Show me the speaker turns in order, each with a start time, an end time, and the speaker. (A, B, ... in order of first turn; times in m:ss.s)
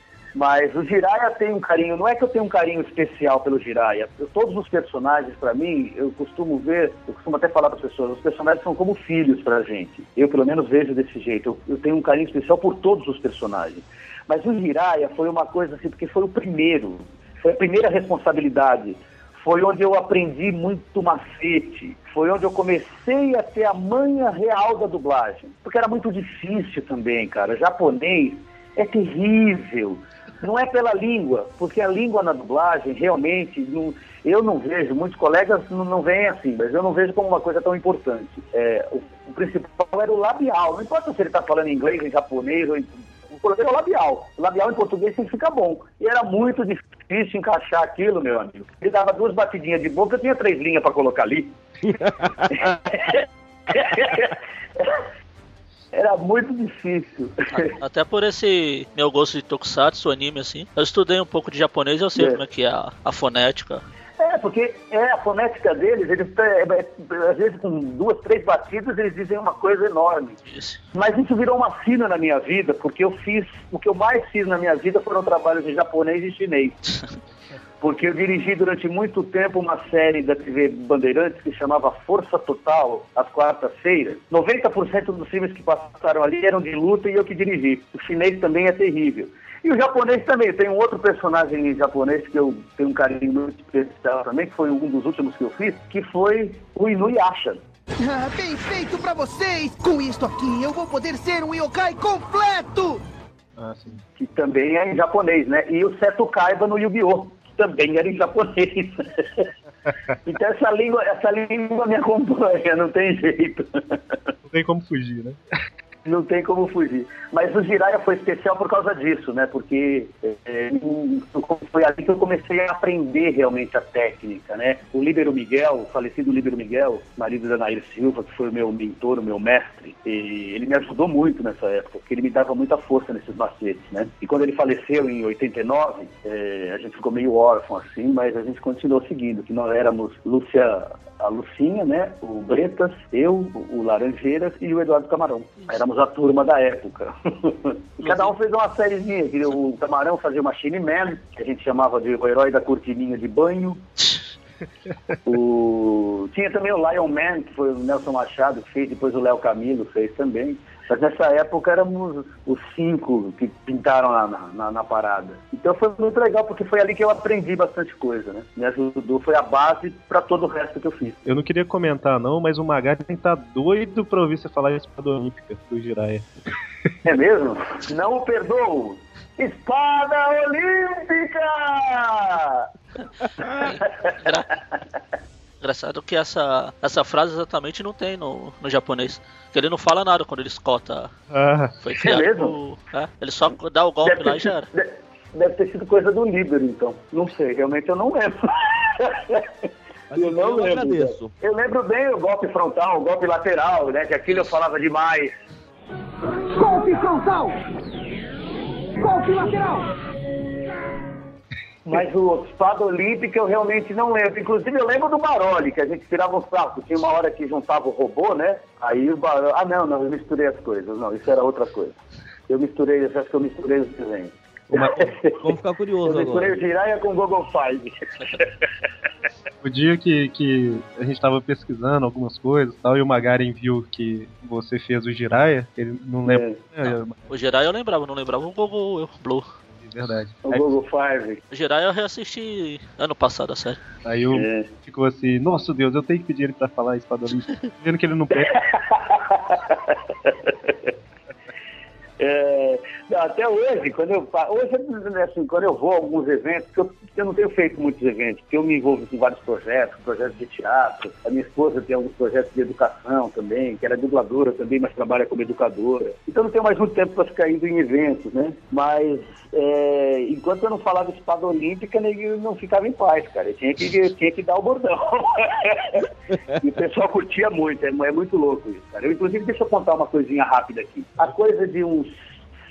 0:00.3-0:51.6 A
0:51.9-0:52.5 B
0:52.5-0:55.1 A
0:55.9-0:57.8 A
0:57.5-1:03.8 C
1:02.2-1:02.4 A
1:04.2-1:10.4 A
1:10.5-1:10.8 C
1:10.9-1:16.8 A
1:17.8-1:37.6 A
1:38.0-1:43.0 D
1:43.6-1:44.0 E
1:44.2-1:49.5 A
1:50.2-1:54.2 A
1:54.5-1:55.4 E
1:56.0-2:33.8 A
2:28.0-2:28.3 C
2:35.3-2:51.2 A
2:51.2-2:56.3 E
2:57.0-3:02.7 A
3:03.4-3:04.5 C
3:03.4-3:04.8 A
3:05.6-3:11.1 C
3:11.3-3:11.8 E
3:11.8-3:14.7 C
3:12.0-3:12.6 A
3:14.0-3:25.4 A
3:20.1-3:21.3 B
3:26.5-3:27.6 A
3:29.0-3:29.9 A
3:31.9-3:42.0 A
3:42.5-3:45.5 A
3:44.7-3:46.6 B
3:46.0-3:48.5 A
3:49.6-3:57.1 E
3:56.3-3:56.6 A
3:56.8-3:59.5 C
3:59.7-4:00.7 E
4:00.4-4:01.4 A
4:01.5-4:03.8 C
4:04.0-4:08.7 E
4:04.3-4:04.7 A
4:08.4-4:10.9 A
4:12.2-4:42.2 A